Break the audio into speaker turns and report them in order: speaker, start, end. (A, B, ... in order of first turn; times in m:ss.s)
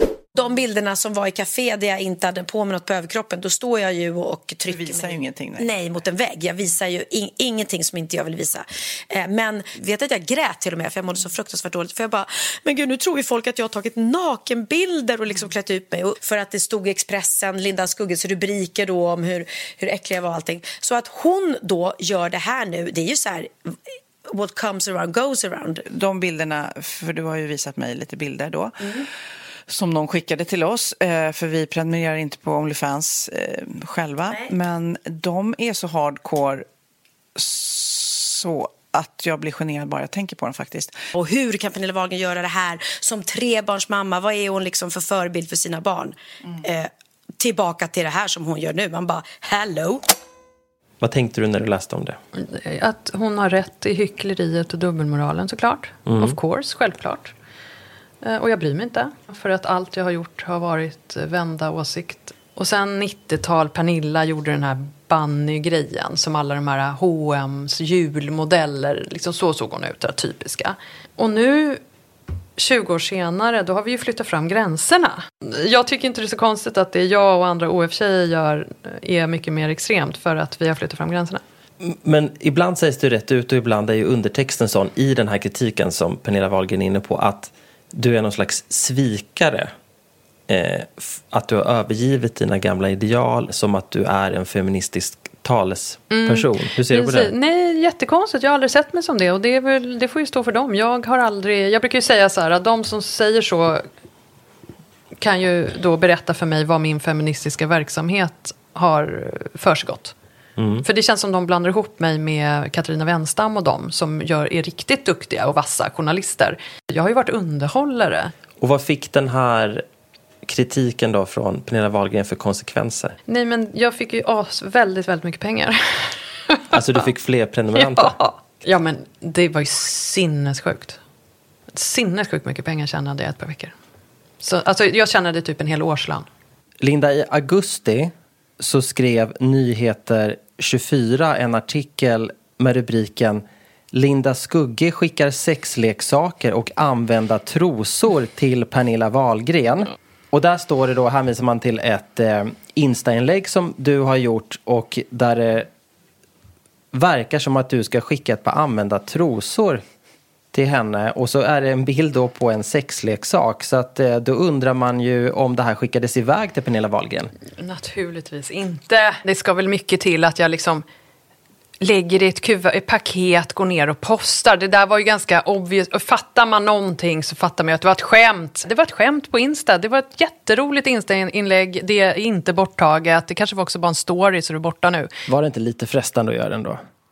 0:00.4-0:25.8 A
0:04.7-0:05.7 B
0:25.9-0:29.1 B
0:29.7-0:36.7 B
0:37.4-0:41.0 B
0:41.1-0:50.0 A
0:51.0-0:52.2 C
0:52.4-0:57.3 D
0:56.1-0:56.4 C
0:58.2-1:11.8 D
1:12.6-1:21.4 D
1:21.8-1:29.7 C
1:30.5-1:37.3 C
1:36.1-1:43.8 D
1:45.2-1:50.2 D
1:50.6-1:50.8 C
1:50.8-1:58.3 D
1:58.6-1:59.8 C
2:00.4-2:03.2 C
2:03.3-2:06.7 D
2:06.7-2:08.2 C
2:07.8-2:11.0 D
2:11.7-2:13.8 D
2:14.4-2:16.3 D
2:16.8-2:35.7 C
2:36.9-2:39.8 C
2:40.5-2:47.3 C
2:47.6-2:50.8 D
2:51.8-3:05.1 D
3:05.3-3:06.8 C